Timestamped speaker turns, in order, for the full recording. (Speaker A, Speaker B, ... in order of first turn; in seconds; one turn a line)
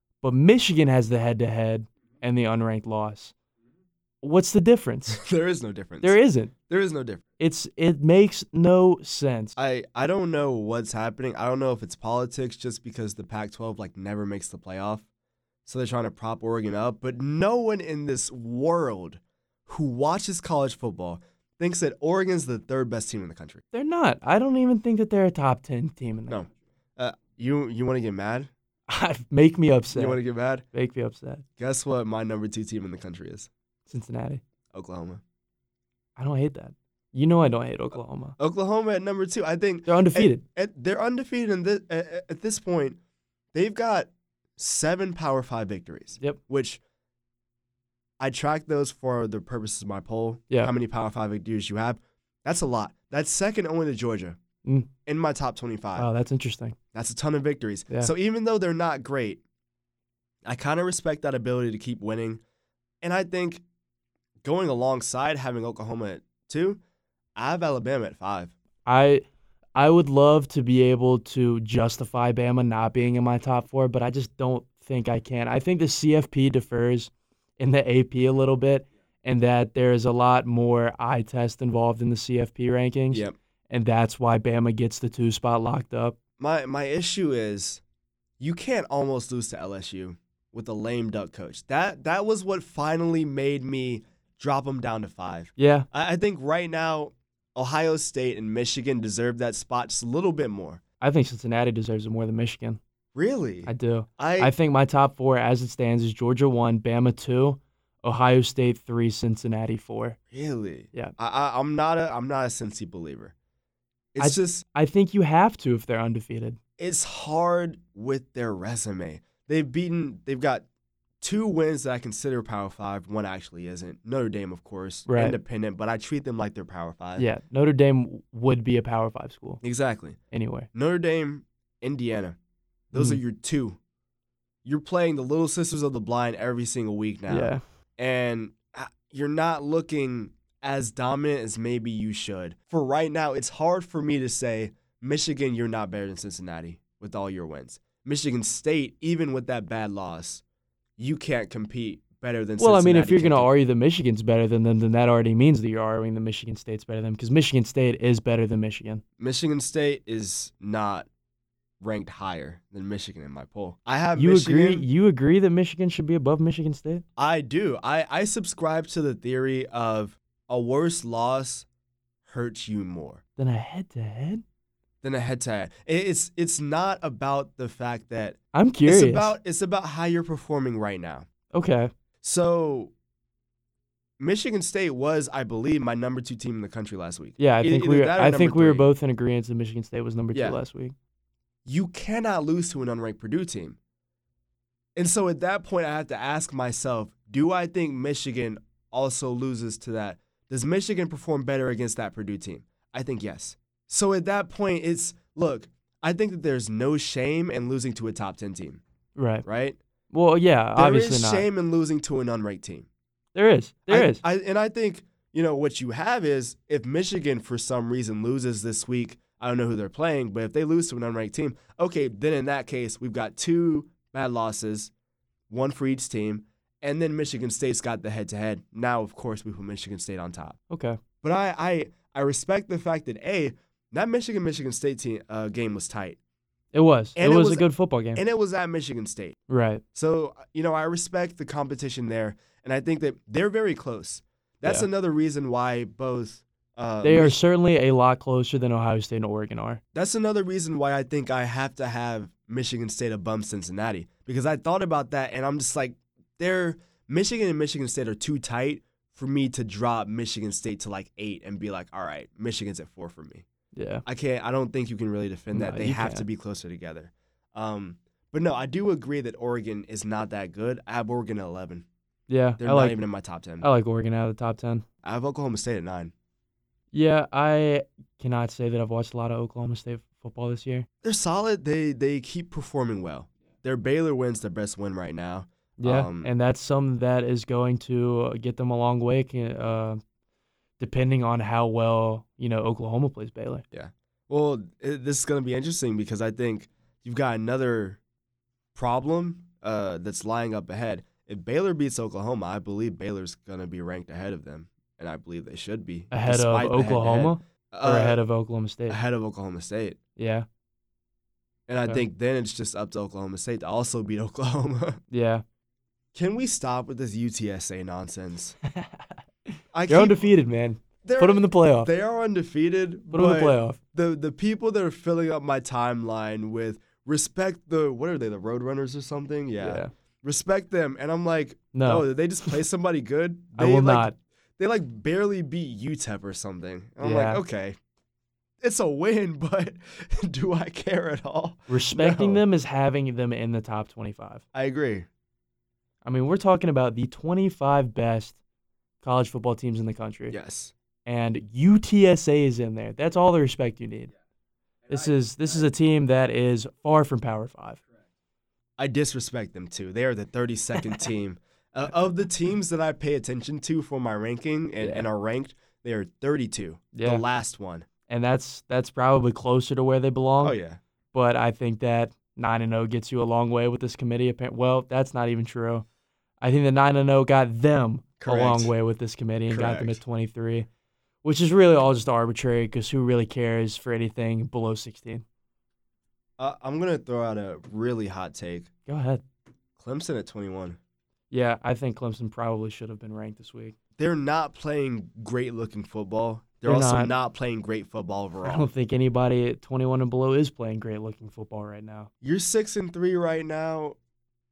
Speaker A: 0.2-3.3
Speaker A: 4.2-5.2
Speaker B: 5.1-6.2
Speaker A: 6.0-6.5
Speaker B: 6.7-7.2
Speaker A: 7.4-9.6
Speaker B: 9.6-15.1
Speaker B: 15.7-23.6
Speaker A: 23.7-26.4
Speaker B: 26.3-28.5
Speaker A: 28.9-30.2
Speaker B: 29.9-30.6
Speaker A: 30.7-31.4
Speaker B: 31.6-33.5
Speaker A: 33.9-34.4
Speaker B: 34.7-35.2
Speaker A: 36.2-38.4
Speaker B: 38.4-43.0
Speaker A: 39.9-40.4
Speaker B: 43.5-46.8
Speaker B: 48.2-54.4
Speaker A: 54.6-54.9
Speaker B: 55.1-56.1
Speaker A: 56.0-56.8
Speaker B: 56.9-59.4
Speaker B: 60.4-62.4
Speaker B: 63.0-63.6
Speaker B: 64.4-66.8
Speaker B: 67.4-68.5
Speaker A: 68.9-69.2
Speaker A: 69.8-86.2
Speaker B: 86.4-87.8
Speaker B: 88.4-100.8
Speaker A: 95.6-95.9
Speaker A: 101.0-102.8
Speaker B: 103.2-104.5
Speaker A: 103.7-110.2
Speaker B: 110.3-113.3
Speaker B: 114.1-114.6
Speaker A: 114.2-116.6
Speaker B: 116.8-120.7
Speaker B: 121.2-127.3
Speaker A: 125.1-125.4
Speaker A: 127.2-129.6
Speaker B: 129.6-130.2
Speaker A: 130.3-130.7
Speaker B: 130.7-132.4
Speaker B: 132.9-133.8
Speaker A: 132.9-133.2
Speaker B: 134.7-150.4
Speaker A: 137.3-137.6
Speaker B: 151.0-153.5
Speaker A: 152.6-159.0
Speaker B: 159.2-161.1
Speaker B: 161.8-164.8
Speaker A: 164.2-167.0
Speaker B: 167.2-171.7
Speaker B: 172.3-173.2
Speaker A: 173.4-174.4
Speaker B: 175.0-181.3
Speaker A: 178.5-179.3
Speaker A: 181.5-181.9
Speaker B: 182.2-182.9
Speaker B: 184.2-188.9
Speaker A: 187.4-190.9
Speaker B: 191.7-193.8
Speaker B: 195.0-208.8
Speaker A: 209.2-209.4
Speaker B: 209.4-209.8
Speaker A: 210.1-211.5
Speaker B: 210.8-212.9
Speaker A: 213.3-214.2
Speaker B: 213.9-224.9
Speaker B: 225.5-230.6
Speaker A: 230.7-231.0
Speaker B: 231.2-236.2
Speaker A: 236.7-238.2
Speaker B: 237.2-239.4
Speaker A: 239.5-239.8
Speaker B: 239.9-247.4
Speaker A: 247.0-249.8
Speaker B: 249.9-263.4
Speaker A: 263.7-264.0
Speaker B: 264.1-271.9
Speaker A: 265.5-266.2
Speaker A: 272.3-273.0
Speaker B: 272.6-273.7
Speaker A: 273.6-274.9
Speaker B: 275.0-276.1
Speaker A: 276.9-280.9
Speaker B: 281.0-286.3
Speaker A: 285.8-290.0
Speaker A: 290.8-293.6
Speaker B: 293.7-298.0
Speaker B: 298.8-308.2
Speaker A: 306.1-309.0
Speaker B: 308.9-310.0
Speaker A: 310.2-310.5
Speaker B: 311.7-315.0
Speaker A: 315.1-315.4
Speaker B: 316.1-318.6
Speaker A: 318.7-319.1
Speaker B: 319.7-320.3
Speaker A: 319.9-321.9
Speaker B: 321.0-337.8
Speaker A: 323.1-323.8
Speaker A: 329.6-329.9
Speaker A: 331.7-332.6
Speaker A: 333.6-334.1
Speaker A: 337.0-337.4
Speaker B: 338.6-342.4
Speaker A: 341.7-344.4
Speaker B: 344.5-345.1
Speaker A: 346.0-348.4
Speaker A: 349.0-350.4
Speaker B: 350.3-350.7
Speaker A: 351.1-354.1
Speaker A: 354.9-357.8
Speaker B: 358.8-367.9
Speaker A: 364.8-365.1
Speaker A: 366.9-367.2
Speaker A: 368.1-370.6
Speaker B: 370.4-370.8
Speaker A: 371.1-375.9
Speaker A: 376.4-380.7
Speaker B: 378.2-378.7
Speaker B: 379.5-380.0
Speaker A: 381.2-385.2
Speaker B: 386.4-388.7
Speaker A: 388.9-389.2
Speaker B: 389.8-390.8
Speaker A: 391.3-393.8
Speaker B: 394.0-398.7
Speaker A: 396.6-397.1
Speaker A: 398.4-402.1
Speaker B: 402.2-404.0